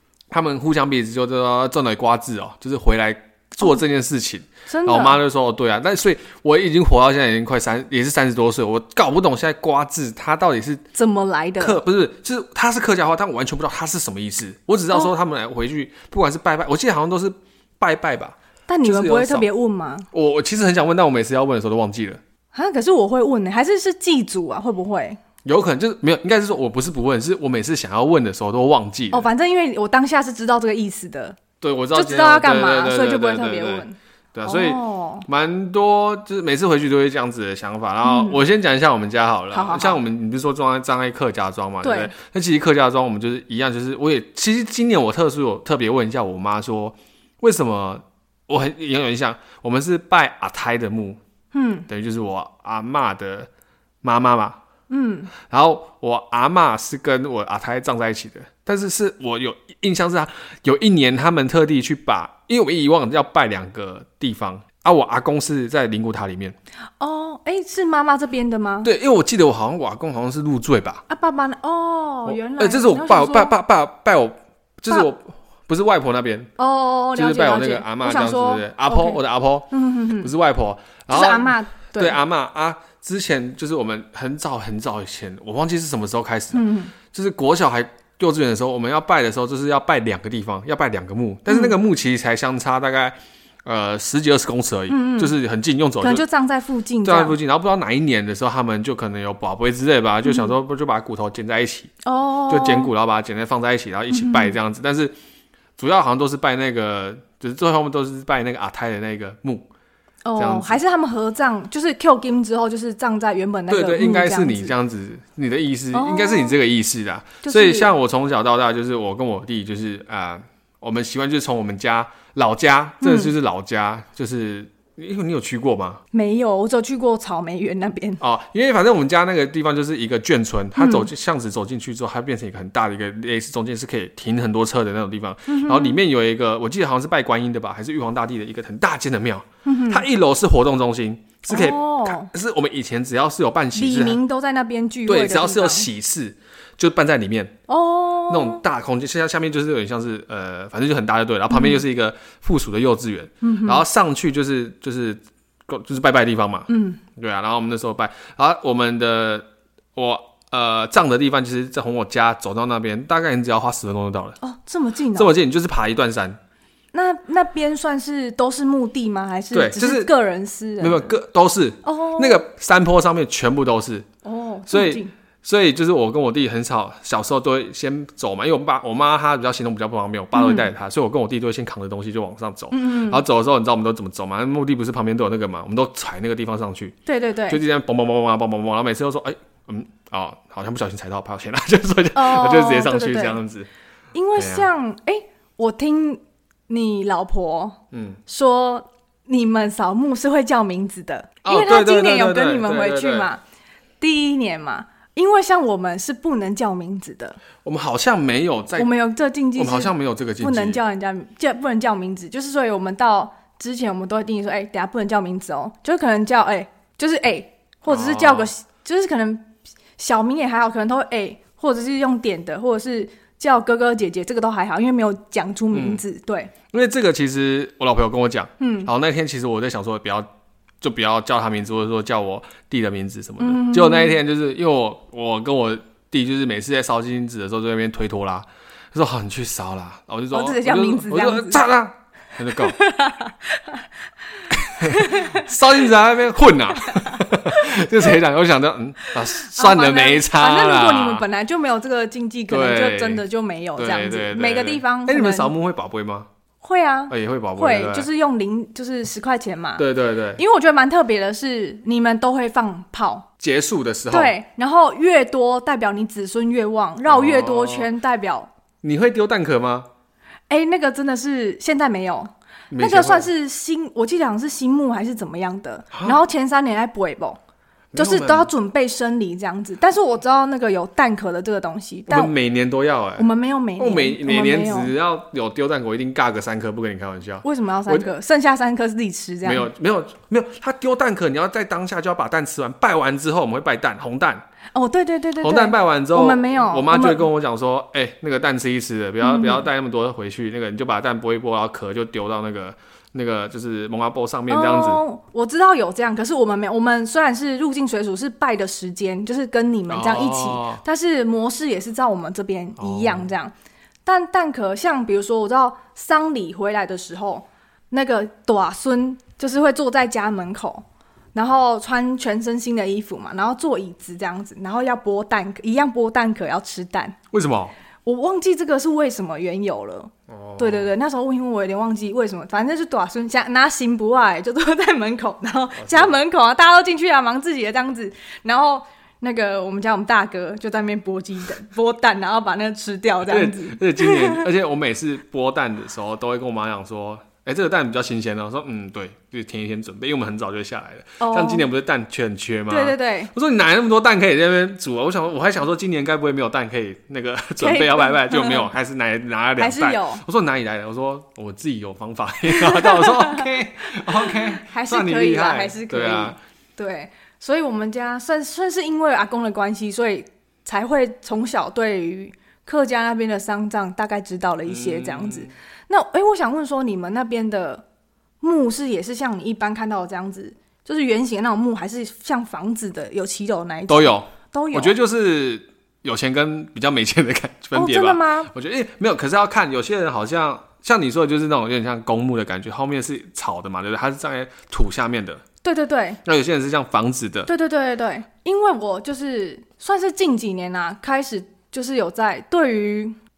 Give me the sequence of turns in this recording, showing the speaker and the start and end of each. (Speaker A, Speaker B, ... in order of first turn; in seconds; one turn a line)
Speaker A: 0.3-10.8
Speaker B: 4.7-5.2
Speaker B: 10.9-11.8
Speaker A: 11.6-19.5
Speaker B: 18.7-20.1
Speaker A: 20.1-22.2
Speaker B: 22.5-25.2
Speaker A: 25.4-29.3
Speaker B: 29.1-31.4
Speaker A: 31.6-51.2
Speaker B: 31.9-33.9
Speaker B: 34.5-35.2
Speaker B: 38.0-38.4
Speaker B: 39.5-40.0
Speaker B: 41.8-42.1
Speaker B: 51.5-51.9
Speaker A: 51.9-53.5
Speaker A: 54.0-54.6
Speaker B: 54.9-55.3
Speaker A: 55.5-66.6
Speaker B: 67.0-68.9
Speaker A: 68.8-71.0
Speaker B: 71.1-73.5
Speaker A: 72.2-76.5
Speaker B: 76.6-80.3
Speaker A: 77.1-96.2
Speaker B: 81.1-82.2
Speaker B: 86.5-86.9
Speaker B: 91.5-91.7
Speaker B: 94.9-95.3
Speaker B: 96.0-97.3
Speaker A: 97.0-101.9
Speaker B: 100.2-100.5
Speaker B: 102.0-102.9
Speaker A: 102.5-105.1
Speaker B: 104.1-104.6
Speaker A: 105.8-109.7
Speaker B: 110.2-114.7
Speaker A: 110.4-110.8
Speaker A: 113.7-126.0
Speaker B: 115.9-116.5
Speaker B: 117.4-117.9
Speaker B: 123.0-123.3
Speaker B: 126.1-128.2
Speaker A: 128.2-144.2
Speaker B: 130.8-131.1
Speaker B: 135.5-136.0
Speaker B: 139.6-140.1
Speaker B: 141.5-142.3
Speaker B: 143.8-145.9
Speaker A: 145.1-147.6
Speaker B: 147.7-148.6
Speaker A: 148.3-164.4
Speaker B: 151.5-151.8
Speaker B: 153.4-153.8
Speaker B: 156.7-157.0
Speaker B: 164.4-165.3
Speaker A: 165.1-166.4
Speaker B: 166.9-171.1
Speaker A: 169.5-170.1
Speaker A: 170.8-174.1
Speaker B: 171.8-172.4
Speaker B: 174.2-175.1
Speaker A: 174.7-186.9
Speaker B: 180.3-180.7
Speaker B: 182.7-183.2
Speaker B: 187.1-187.6
Speaker A: 187.5-193.7
Speaker B: 192.1-193.4
Speaker B: 194.1-203.4
Speaker A: 194.4-194.7
Speaker A: 197.9-198.2
Speaker A: 201.4-203.3
Speaker B: 204.0-207.4
Speaker A: 207.6-208.9
Speaker B: 208.8-226.5
Speaker A: 209.6-210.8
Speaker A: 217.9-218.5
Speaker A: 225.7-226.0
Speaker A: 226.7-230.3
Speaker B: 228.6-228.9
Speaker A: 230.8-242.8
Speaker B: 233.4-234.2
Speaker B: 240.3-241.6
Speaker B: 242.6-243.9
Speaker A: 244.5-251.2
Speaker B: 244.8-245.5
Speaker B: 246.9-247.2
Speaker B: 249.2-255.5
Speaker A: 252.5-253.2
Speaker A: 253.8-256.3
Speaker B: 256.6-259.8
Speaker A: 257.1-258.1
Speaker A: 259.8-260.4
Speaker B: 260.4-263.3
Speaker A: 263.4-264.4
Speaker B: 264.1-268.5
Speaker A: 267.1-267.9
Speaker A: 268.8-269.9
Speaker B: 270.5-277.4
Speaker A: 272.7-273.3
Speaker A: 277.9-278.5
Speaker B: 277.9-282.3
Speaker A: 282.1-283.3
Speaker B: 283.2-284.9
Speaker A: 283.8-288.1
Speaker B: 287.4-289.7
Speaker A: 289.4-294.4
Speaker B: 294.7-297.2
Speaker A: 295.4-305.0
Speaker B: 299.2-299.6
Speaker B: 304.5-313.5
Speaker A: 309.9-310.8
Speaker A: 312.8-313.3
Speaker B: 314.1-327.2
Speaker A: 327.3-327.7
Speaker B: 328.1-344.4
Speaker A: 330.3-330.9
Speaker A: 335.8-336.2
Speaker A: 343.3-366.4
Speaker B: 351.2-351.6
Speaker B: 352.7-353.3
Speaker B: 357.6-358.7
Speaker B: 359.6-360.2
Speaker B: 362.5-377.9
Speaker A: 374.6-375.5
Speaker B: 378.4-385.0
Speaker A: 383.9-395.4
Speaker B: 387.7-388.5
Speaker B: 395.6-396.2
Speaker A: 396.2-397.5
Speaker B: 397.5-403.2